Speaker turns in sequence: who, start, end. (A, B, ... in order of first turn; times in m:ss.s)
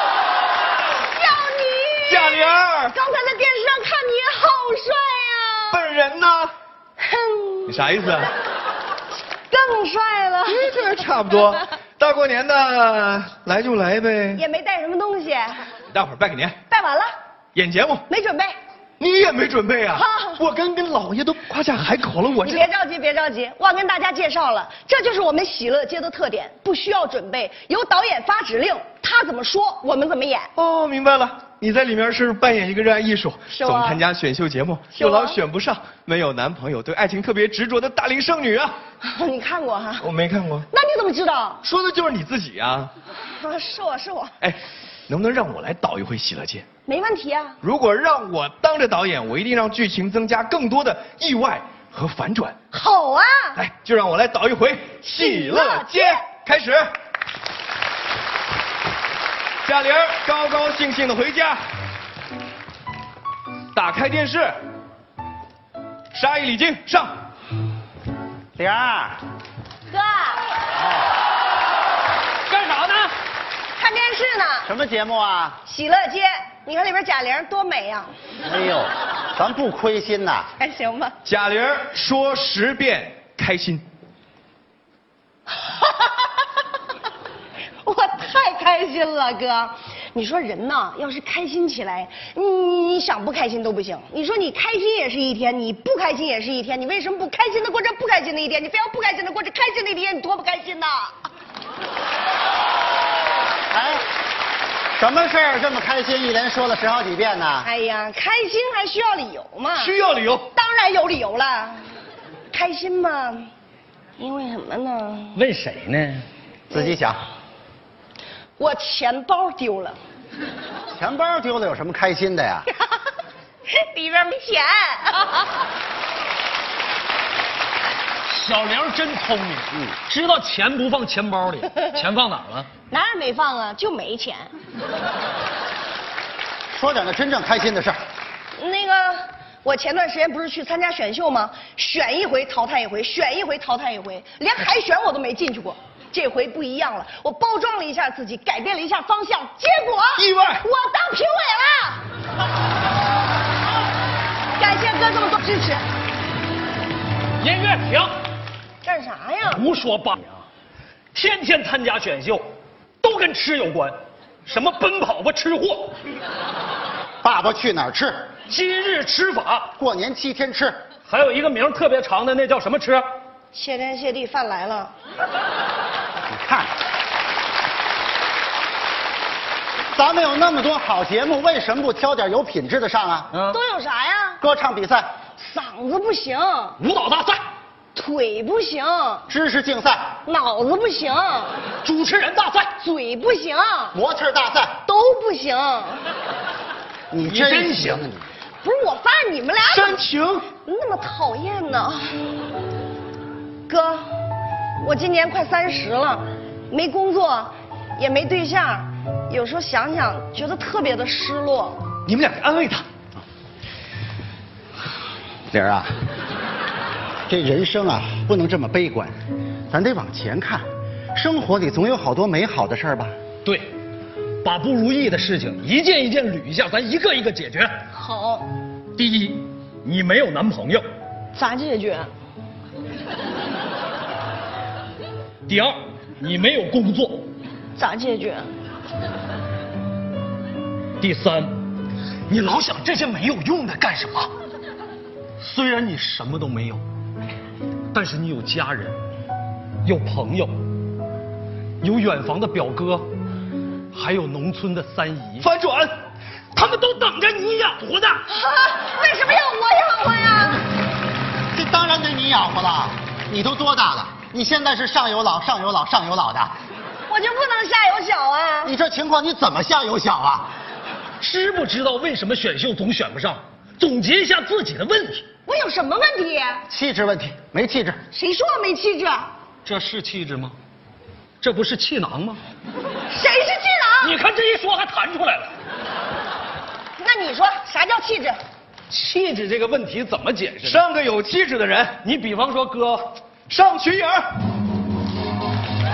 0:01.1-0:05.8 A
0:02.1-0:02.9 B
0:05.7-0:06.5 B
0:07.0-0:07.9 A
0:07.7-0:08.3 B
0:09.5-0:10.8 A
0:10.5-0:14.4 B
0:14.4-0:15.6 A
0:15.9-0:16.6 B
0:16.7-0:17.1 A
0:17.6-0:18.0 B
0:18.1-0:18.6 A
0:19.0-0:22.6 B
0:19.9-0:20.4 A
0:22.4-0:30.5 A
0:30.6-0:38.8 B
0:33.5-0:34.0 A
0:34.9-0:35.4 A
0:39.0-0:40.1 A
0:40.0-0:40.7 B
0:40.7-0:41.6 A
0:41.6-0:42.9 B
0:43.3-0:44.4 A
0:44.4-0:46.6 B
0:46.9-0:47.6 A
0:47.6-0:52.6 B
0:52.7-0:53.6 A
0:53.6-0:56.9 B
0:55.0-0:56.3 A
0:59.6-1:01.6 B
1:03.7-1:04.6 B
1:06.1-1:07.1 B
1:08.6-1:09.2 C
1:10.8-1:11.1 C
1:12.5-1:13.1 D
1:13.8-1:14.7 A
1:14.7-1:15.6 C
1:15.6-1:18.1 A
1:18.4-1:20.5 C
1:20.6-1:21.2 A
1:21.2-1:23.8 B
1:27.8-1:41.1 A
1:43.7-1:44.0 C
1:45.0-1:47.7 C
1:47.6-1:50.0 A
1:49.8-1:50.5 D
1:50.5-1:51.8 A
1:52.5-1:53.5 A
1:54.2-1:55.4 A
1:55.3-1:56.2 D
1:56.7-1:57.2 C
1:58.6-2:00.0 A
2:00.9-2:02.7 C
2:03.7-2:05.3 A
2:08.3-2:12.7 D
2:12.9-2:14.5 A
2:16.7-2:18.0 C
2:18.6-2:32.0 A
2:30.2-2:30.6 B
2:34.6-2:35.8 A
2:37.4-2:38.1 D
2:38.8-2:39.7 A
2:39.5-2:40.4 D
2:41.1-2:42.5 D
2:43.0-2:46.0 D
2:47.2-2:48.3 C
2:48.5-2:49.7 D
2:49.8-2:50.8 C
2:51.1-2:53.0 D
2:53.5-2:54.9 A
2:56.3-2:56.7 C
2:59.9-3:03.3 C
3:03.3-3:03.6 D
3:03.5-3:04.4 A
3:04.4-3:05.1 C
3:05.4-3:06.8 A
3:06.8-3:07.4 D
3:07.9-3:09.3 A
3:09.3-3:10.1 C
3:10.3-3:11.6 A
3:11.8-3:12.7 D
3:12.8-3:14.0 A
3:13.9-3:14.8 C
3:14.9-3:16.1 A
3:17.1-3:18.3 C
3:17.2-3:18.1 D
3:18.6-3:20.0 A
3:19.7-3:20.5 B
3:20.6-3:22.1 A
3:23.7-3:24.0 A
3:24.8-3:31.8 A
3:32.1-3:32.8 D
3:35.5-3:36.0 C
3:37.3-3:39.2 C
3:39.7-3:43.1 C
3:44.4-3:47.8 D
3:47.9-3:48.5 A
3:49.0-3:50.8 D
3:51.3-3:52.1 A
3:55.5-3:57.3 D
3:57.8-3:58.5 A
4:01.0-4:01.6 D
4:02.3-4:04.3 D
4:05.4-4:06.8 D
4:07.9-4:09.0 D
4:09.8-4:10.6 D
4:11.8-4:13.1 D
4:13.9-4:15.5 D
4:15.4-4:15.9 B
4:16.5-4:18.2 D
4:18.3-4:20.6 A
4:21.5-4:26.5 C
4:27.1-4:28.7 A
4:28.6-4:30.5 C
4:31.2-4:35.2 D
4:35.5-4:36.6 A
4:36.7-4:38.0 C
4:38.1-4:39.3 A
4:39.6-4:40.6 D
4:41.4-4:42.4 D
4:43.1-4:44.2 A
4:44.0-4:45.5 D
4:47.0-4:48.4 A
4:48.9-4:50.9 D
4:50.6-4:52.0 B
4:52.0-4:53.2 D
4:53.5-4:54.2 B